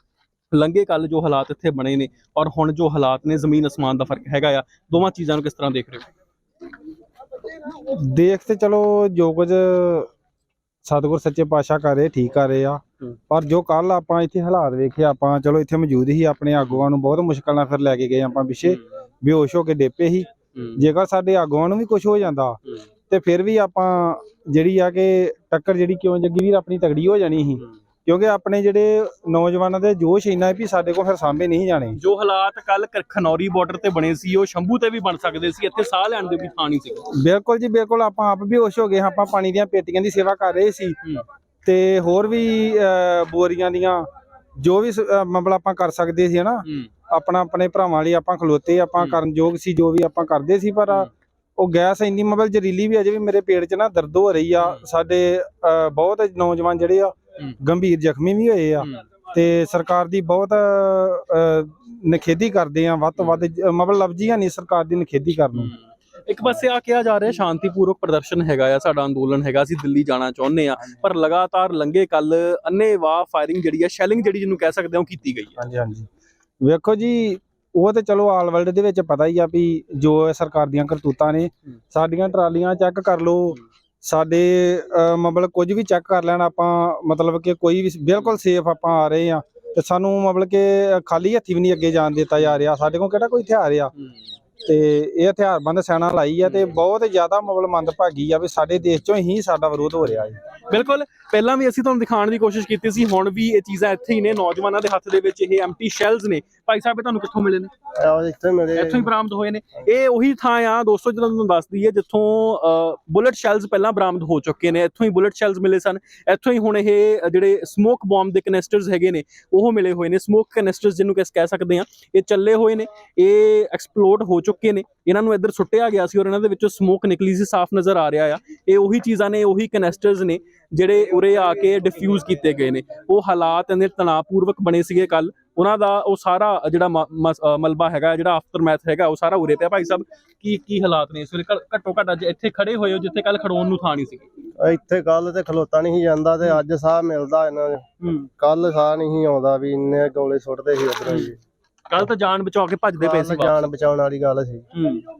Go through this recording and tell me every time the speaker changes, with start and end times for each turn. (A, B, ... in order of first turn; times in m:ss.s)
0:00.5-0:06.1 A
0:07.7-0:10.1 B
0:10.8-0:32.0 B
0:20.5-0:20.8 A
0:32.0-0:37.1 A
0:37.1-0:41.0 B
0:41.6-0:44.0 B
0:44.6-1:05.7 B
0:46.6-0:46.9 A
0:58.8-0:59.0 A
1:03.2-1:03.4 A
1:05.5-1:15.6 A
1:15.6-1:16.1 B
1:16.6-1:33.9 B
1:34.6-1:40.4 B
1:40.7-1:47.7 A
1:48.0-1:49.0 C
1:48.7-2:24.3 A
2:24.6-2:27.8 C
2:28.0-2:28.3 A
2:28.4-2:31.4 C
2:31.1-2:31.3 A
2:31.9-2:33.7 A
2:33.0-2:34.6 C
2:34.7-2:35.0 A